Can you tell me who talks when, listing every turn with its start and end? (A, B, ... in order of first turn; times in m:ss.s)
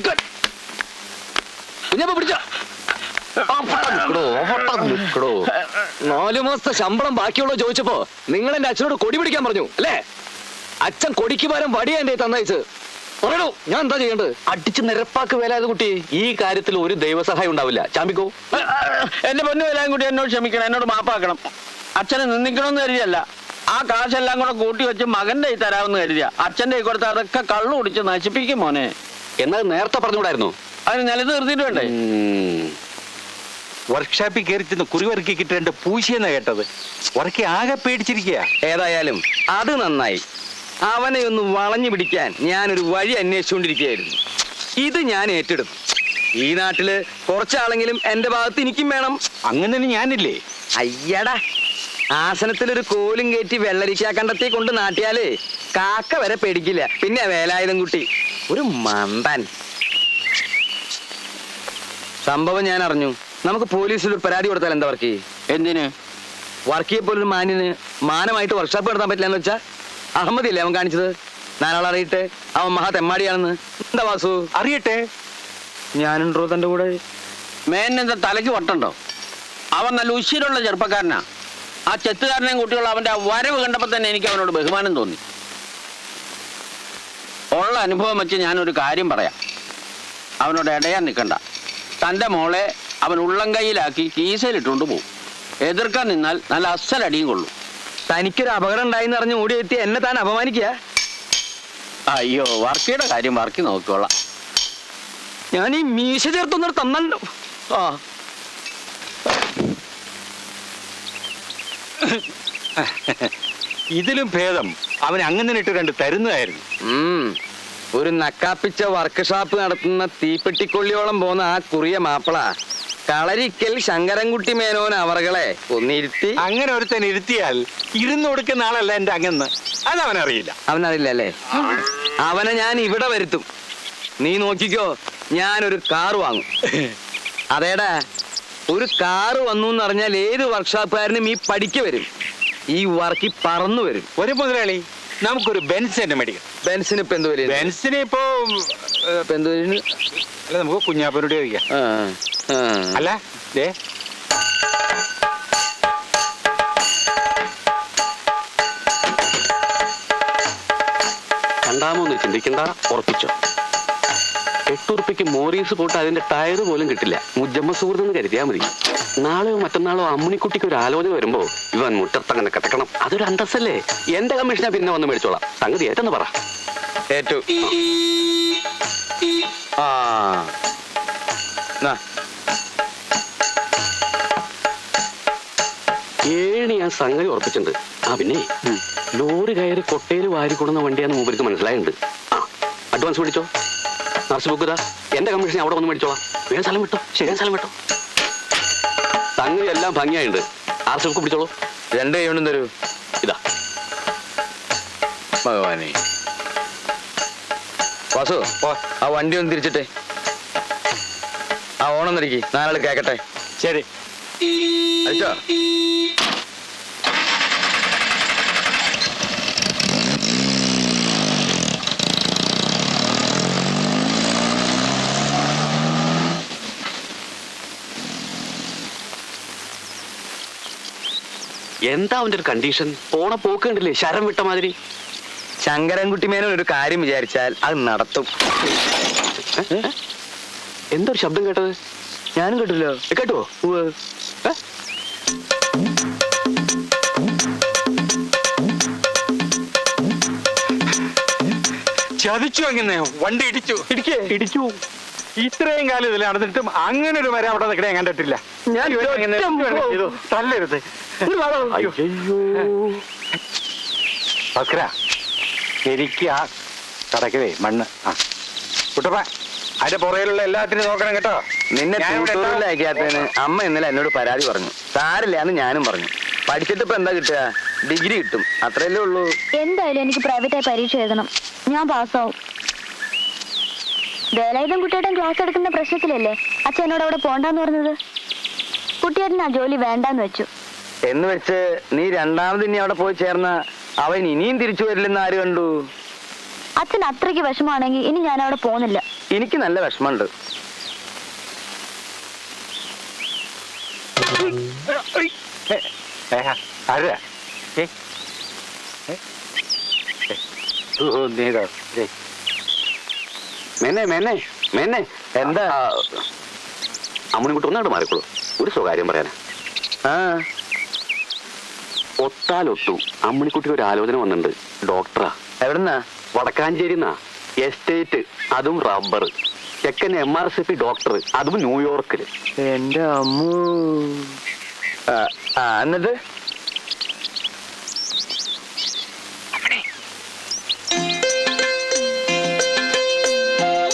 0:06.0-0:10.0 A
0:10.8-0:12.6 A
0:13.2-0:14.3 A
0:16.2-0:18.3 B
0:18.5-0:21.4 C
0:22.0-0:28.9 C
0:29.4-0:30.5 B
0:30.9-0:31.9 C
0:32.1-0:32.7 B
0:33.9-0:36.7 D
0:37.2-0:38.5 D
0:38.6-0:40.2 E
0:40.9-0:44.2 E
0:44.8-0:45.8 E
0:46.4-0:49.2 E
0:49.5-0:50.4 D
0:50.8-0:51.4 E
0:52.2-0:59.4 E
1:02.2-1:05.2 E
1:05.5-1:05.9 C
1:06.7-1:09.6 E
1:10.2-1:14.4 E
1:14.6-1:15.0 D
1:16.0-1:16.9 E
1:17.7-1:19.0 C
1:19.8-1:21.2 C
1:21.9-1:25.2 C
1:27.5-1:29.3 C
1:30.4-1:31.4 C
1:32.0-1:35.0 C
1:35.6-1:37.5 C
1:38.1-1:40.7 E
1:42.1-1:44.1 C
1:45.5-1:47.2 E
1:47.7-1:48.0 E
1:52.8-1:53.3 D
1:54.0-1:56.6 D
1:56.9-1:57.3 E
1:58.0-2:02.5 E
2:03.1-2:06.4 E
2:06.4-2:10.6 D
2:10.7-2:11.3 E
2:12.2-2:13.4 E
2:14.2-2:16.5 E
2:17.5-2:17.9 E
2:18.7-2:22.1 E
2:22.7-2:24.1 E
2:24.2-2:26.4 D
2:26.6-2:27.7 E
2:27.5-2:29.1 D
2:29.3-2:29.8 E
2:30.5-2:31.6 D
2:31.7-2:33.1 E
2:33.0-2:33.7 D
2:41.7-2:43.3 B
2:44.7-2:48.6 B
2:49.2-2:56.2 B
2:57.1-2:57.4 E
2:59.8-3:00.5 E
3:06.3-3:08.4 B
3:09.2-3:11.9 B
3:13.0-3:13.4 B
3:14.3-3:17.7 B
3:19.4-3:20.4 B
3:20.9-3:21.5 B
3:22.0-3:22.7 E
3:25.4-3:26.0 E
3:28.1-3:28.4 E
3:29.0-3:29.9 E
3:31.8-3:33.2 E
3:35.1-3:35.3 E
3:51.9-3:54.7 B
3:55.6-3:58.3 E
4:01.0-4:01.7 B
4:02.4-4:02.9 E
4:12.2-4:14.8 D
4:13.9-4:14.3 E
4:15.4-4:20.8 D
4:18.7-4:20.2 E
4:21.3-4:21.9 E
4:21.6-4:22.0 D
4:24.6-4:24.9 D
4:25.9-4:26.5 D
4:27.1-4:28.2 D
4:29.0-4:29.3 D
4:29.8-4:31.4 D
4:31.8-4:39.3 E
4:32.0-4:33.2 D
4:39.6-4:42.3 F
4:44.4-4:48.0 F
4:49.0-4:50.5 F
4:51.1-4:55.7 E
4:56.8-4:59.0 F
4:59.3-5:00.3 E
5:05.0-5:07.2 D
5:11.0-5:12.1 D
5:13.9-5:14.2 B
5:15.4-5:15.8 E
5:17.4-5:19.3 B
5:20.1-5:20.4 E
5:22.3-5:25.2 B
5:25.6-5:26.0 E
5:26.4-5:27.0 B
5:27.7-5:29.2 B
5:29.9-5:32.2 B
5:32.6-5:34.3 E
5:35.1-5:36.1 E